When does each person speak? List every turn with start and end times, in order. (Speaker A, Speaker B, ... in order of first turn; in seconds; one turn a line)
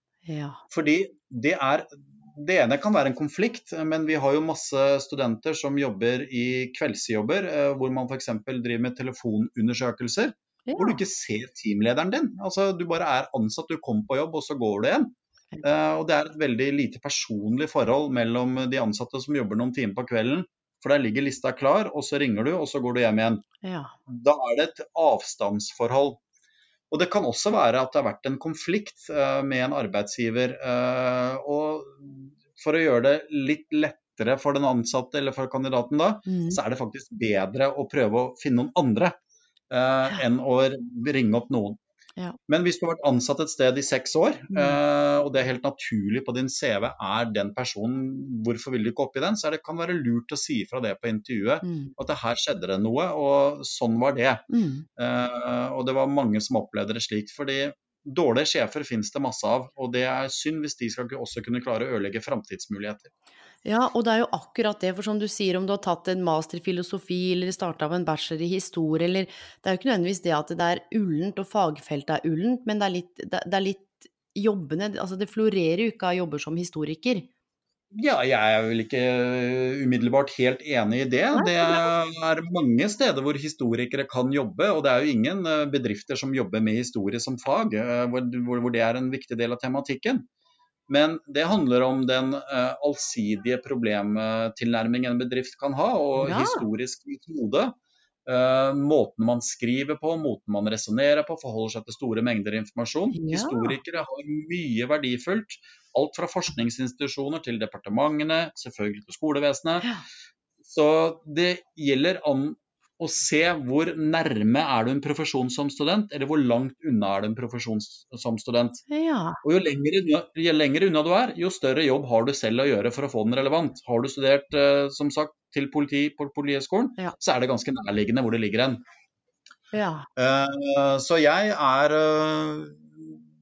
Speaker A: 0.3-0.6
Speaker B: 0.7-23.4
Speaker A: 10.7-11.0
Speaker A: 23.6-23.9
Speaker B: 24.1-26.2
Speaker B: 26.9-39.2
Speaker A: 36.3-36.6
Speaker B: 39.7-41.8
Speaker B: 42.5-54.5
Speaker A: 44.5-44.8
Speaker A: 51.6-51.9
Speaker A: 54.5-54.9
Speaker B: 55.0-63.1
Speaker A: 63.6-77.3
Speaker B: 77.9-90.3
Speaker A: 81.3-81.9
Speaker B: 90.9-97.8
Speaker A: 96.2-96.7
Speaker B: 98.3-109.9
Speaker A: 103.1-103.8
Speaker B: 110.6-118.8
Speaker A: 118.9-119.4
Speaker B: 119.4-128.8
Speaker A: 129.7-130.1
Speaker B: 130.2-133.3